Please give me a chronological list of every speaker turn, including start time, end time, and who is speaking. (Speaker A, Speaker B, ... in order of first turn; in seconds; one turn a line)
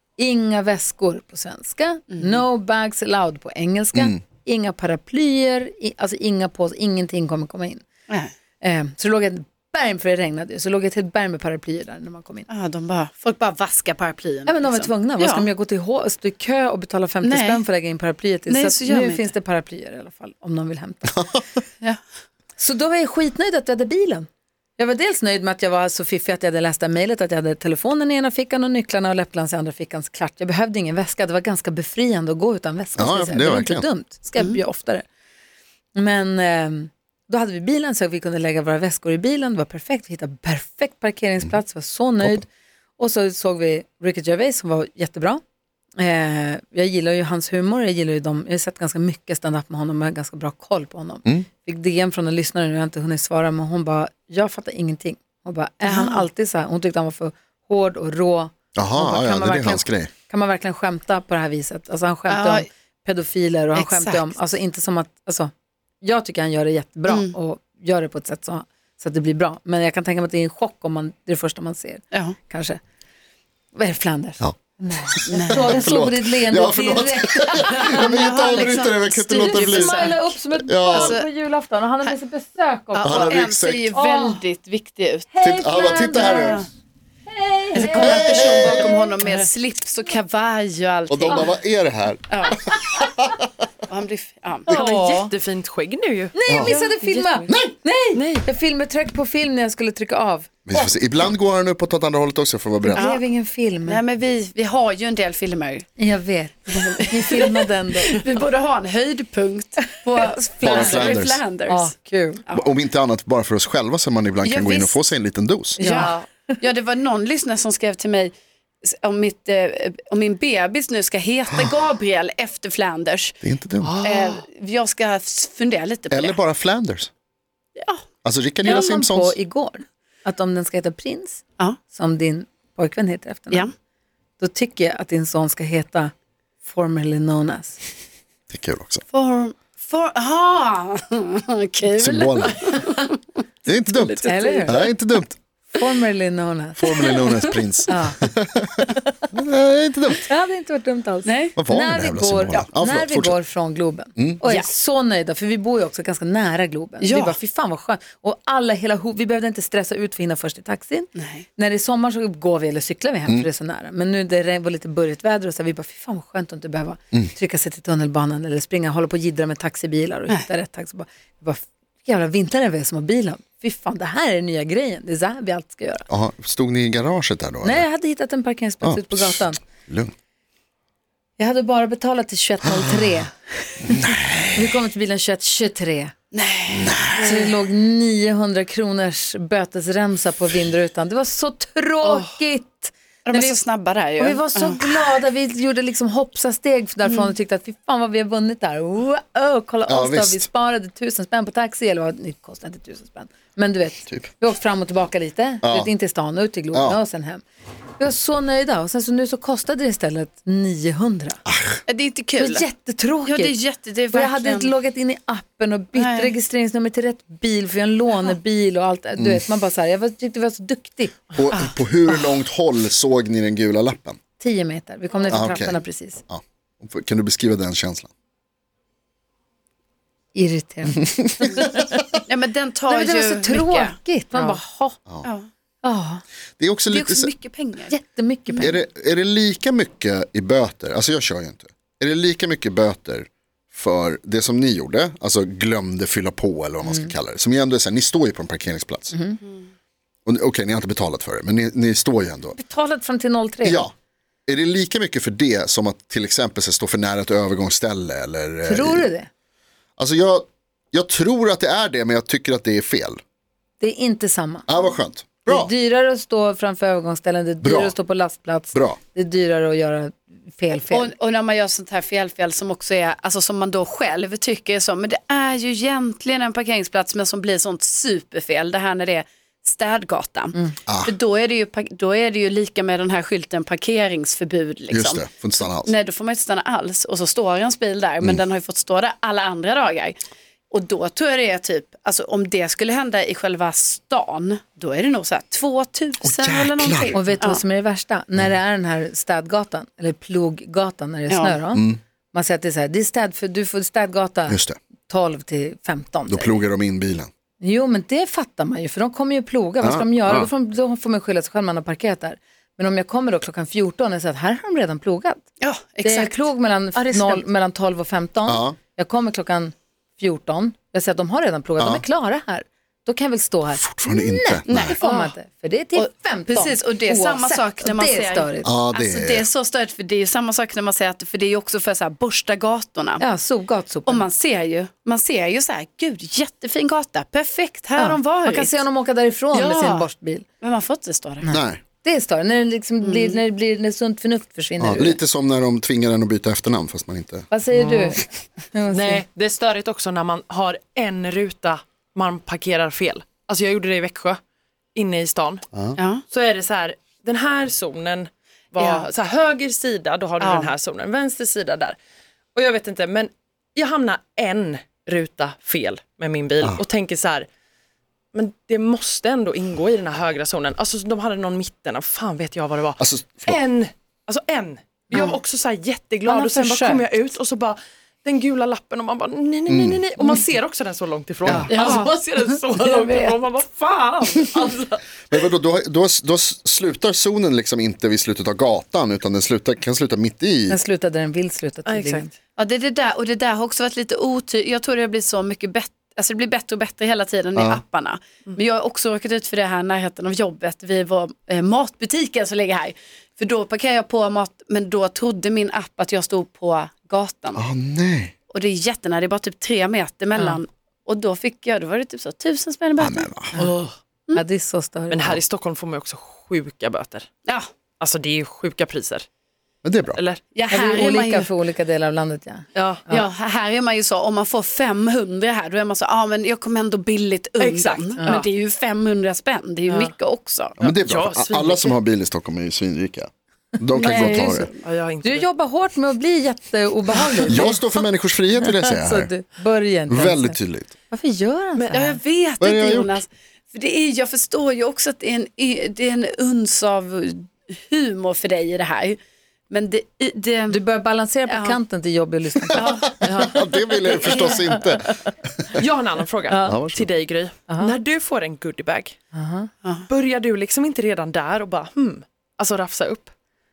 Speaker A: 0.2-7.8
Speaker B: 2.1-2.4
Speaker C: 4.0-4.2
Speaker A: 8.6-12.5
Speaker B: 12.5-15.5
Speaker A: 14.5-21.4
Speaker B: 17.2-17.6
Speaker B: 18.5-19.3
Speaker A: 22.6-24.3
Speaker A: 24.8-35.0
Speaker C: 33.0-33.9
Speaker A: 35.9-45.4
Speaker A: 46.0-72.8
Speaker B: 55.8-56.3
Speaker C: 58.8-60.1
Speaker B: 62.3-62.7
Speaker B: 63.8-64.3
Speaker B: 67.1-67.3
Speaker A: 73.8-84.4
Speaker C: 75.1-81.2
Speaker B: 75.3-75.7
Speaker B: 77.8-80.3
Speaker B: 80.9-81.3
Speaker B: 82.9-85.3
Speaker C: 83.0-83.8
Speaker A: 85.3-86.7
Speaker C: 85.4-86.6
Speaker B: 86.1-86.7
Speaker A: 87.3-89.2
Speaker B: 87.7-91.6
Speaker C: 88.0-89.0
Speaker C: 91.1-93.3
Speaker B: 92.3-92.6
Speaker B: 93.9-94.7
Speaker A: 94.7-95.3
Speaker D: 94.7-96.3
Speaker A: 96.3-100.9
Speaker C: 96.5-96.8
Speaker B: 96.6-97.1
Speaker D: 97.1-97.4
Speaker C: 97.5-97.8
Speaker D: 98.2-98.4
Speaker C: 100.7-103.1
Speaker A: 102.8-104.0
Speaker B: 103.0-103.2
Speaker B: 103.9-105.9
Speaker A: 106.0-108.2
Speaker B: 106.8-111.9
Speaker A: 110.2-111.1
Speaker C: 110.6-111.4
Speaker A: 111.7-112.4
Speaker C: 112.5-115.8
Speaker B: 114.4-115.0
Speaker B: 115.8-118.3
Speaker A: 115.8-116.6
Speaker D: 115.8-116.3
Speaker B: 118.8-123.4
Speaker C: 123.4-124.0
Speaker D: 123.8-124.4
Speaker B: 124.0-126.4
Speaker C: 126.1-127.1
Speaker B: 127.8-128.0
Speaker C: 128.2-129.4
Speaker A: 128.6-133.7
Speaker A: 134.4-137.8
Speaker C: 138.5-139.0
Speaker B: 139.1-143.2
Speaker C: 142.0-142.6
Speaker C: 143.7-145.4
Speaker B: 143.9-144.9
Speaker A: 144.2-144.9
Speaker A: 145.7-147.0
Speaker C: 146.8-150.3
Speaker A: 147.9-148.2
Speaker A: 148.9-149.2
Speaker A: 150.2-176.1
Speaker B: 151.2-151.6
Speaker C: 151.6-153.4
Speaker B: 154.5-154.7
Speaker B: 157.0-157.4
Speaker B: 161.2-161.5
Speaker C: 176.1-177.8
Speaker A: 177.6-179.6
Speaker C: 178.8-180.1
Speaker A: 181.4-186.1
Speaker C: 182.6-183.2
Speaker C: 183.9-184.8
Speaker B: 186.3-187.5
Speaker C: 186.7-187.3
Speaker A: 187.2-193.6
Speaker B: 193.2-194.9
Speaker A: 194.2-207.4
Speaker C: 199.9-200.5
Speaker C: 205.6-205.9
Speaker C: 206.7-207.0
Speaker A: 208.0-211.4
Speaker C: 211.5-211.8
Speaker B: 211.9-212.7
Speaker A: 212.4-213.6
Speaker B: 213.2-214.7
Speaker A: 214.1-221.2
Speaker B: 215.9-216.3
Speaker C: 219.2-219.4
Speaker C: 221.3-224.2
Speaker A: 224.4-226.2
Speaker C: 225.3-228.1
Speaker A: 230.3-232.2
Speaker B: 232.3-234.6
Speaker A: 232.9-235.0
Speaker A: 235.8-236.2
Speaker C: 236.6-237.3
Speaker B: 236.9-237.9
Speaker A: 237.9-238.8
Speaker C: 238.6-249.2
Speaker A: 246.8-247.1
Speaker A: 249.1-249.4
Speaker C: 250.3-252.6
Speaker A: 252.6-253.8
Speaker C: 253.6-253.9
Speaker C: 254.5-259.1
Speaker A: 258.6-259.3
Speaker C: 260.0-263.2
Speaker A: 263.8-264.7
Speaker C: 264.7-265.7
Speaker A: 265.5-271.1
Speaker C: 267.6-267.9
Speaker C: 268.7-269.0
Speaker B: 270.9-290.2
Speaker C: 280.9-281.1
Speaker C: 284.9-285.9
Speaker B: 290.7-297.6
Speaker C: 296.2-297.2
Speaker A: 297.1-306.6
Speaker B: 301.3-301.6
Speaker C: 301.7-302.0
Speaker C: 304.5-304.8
Speaker C: 306.3-307.3
Speaker A: 307.6-315.4
Speaker C: 309.8-310.5
Speaker B: 315.6-317.4
Speaker A: 316.0-328.7
Speaker C: 318.5-318.8
Speaker C: 323.8-325.0
Speaker B: 324.7-325.4
Speaker B: 326.0-333.2
Speaker C: 328.6-329.5
Speaker A: 333.2-334.3
Speaker B: 334.1-338.8
Speaker A: 338.0-340.4
Speaker B: 339.5-340.1
Speaker B: 340.6-341.5
Speaker A: 341.4-345.2
Speaker C: 341.5-341.8
Speaker B: 343.0-343.4
Speaker C: 344.8-347.5
Speaker A: 347.5-349.2
Speaker D: 347.7-348.2
Speaker D: 348.9-354.4
Speaker D: 354.9-355.6
Speaker B: 356.0-356.2
Speaker D: 356.3-362.0
Speaker B: 358.8-359.1
Speaker B: 360.4-360.7
Speaker D: 362.6-367.5
Speaker D: 368.3-385.0
Speaker C: 373.0-373.6
Speaker A: 376.3-377.1
Speaker C: 379.7-380.0
Speaker C: 381.4-381.7
Speaker A: 381.5-381.7
Speaker B: 381.7-382.1
Speaker B: 382.8-383.4
Speaker C: 385.3-390.8
Speaker A: 390.7-392.3
Speaker D: 391.9-392.3
Speaker B: 392.6-407.6
Speaker C: 407.6-408.3
Speaker B: 408.5-413.3
Speaker C: 413.0-413.6
Speaker D: 413.6-413.9
Speaker A: 414.3-415.4
Speaker D: 415.1-417.3
Speaker D: 418.0-419.2
Speaker C: 419.8-420.2
Speaker D: 420.1-420.4
Speaker B: 420.6-421.5
Speaker A: 420.7-423.3
Speaker D: 422.8-423.0
Speaker B: 423.1-430.8
Speaker D: 427.6-428.5
Speaker D: 429.9-430.1
Speaker C: 430.8-434.7
Speaker D: 430.8-432.0
Speaker B: 433.9-434.8
Speaker A: 434.1-434.5
Speaker D: 434.2-435.5
Speaker A: 435.2-437.8
Speaker C: 437.4-439.3
Speaker A: 438.7-440.6
Speaker C: 440.1-440.9
Speaker A: 441.1-442.2
Speaker B: 441.9-449.2
Speaker C: 442.6-443.2
Speaker B: 449.7-450.8
Speaker A: 450.7-452.9
Speaker B: 451.5-451.8
Speaker B: 452.7-453.1
Speaker D: 453.2-453.6
Speaker C: 453.3-455.8
Speaker A: 454.3-455.2
Speaker D: 455.8-459.2
Speaker A: 456.5-456.8
Speaker C: 456.6-457.1
Speaker A: 457.7-457.9
Speaker A: 459.3-459.7
Speaker D: 460.1-463.3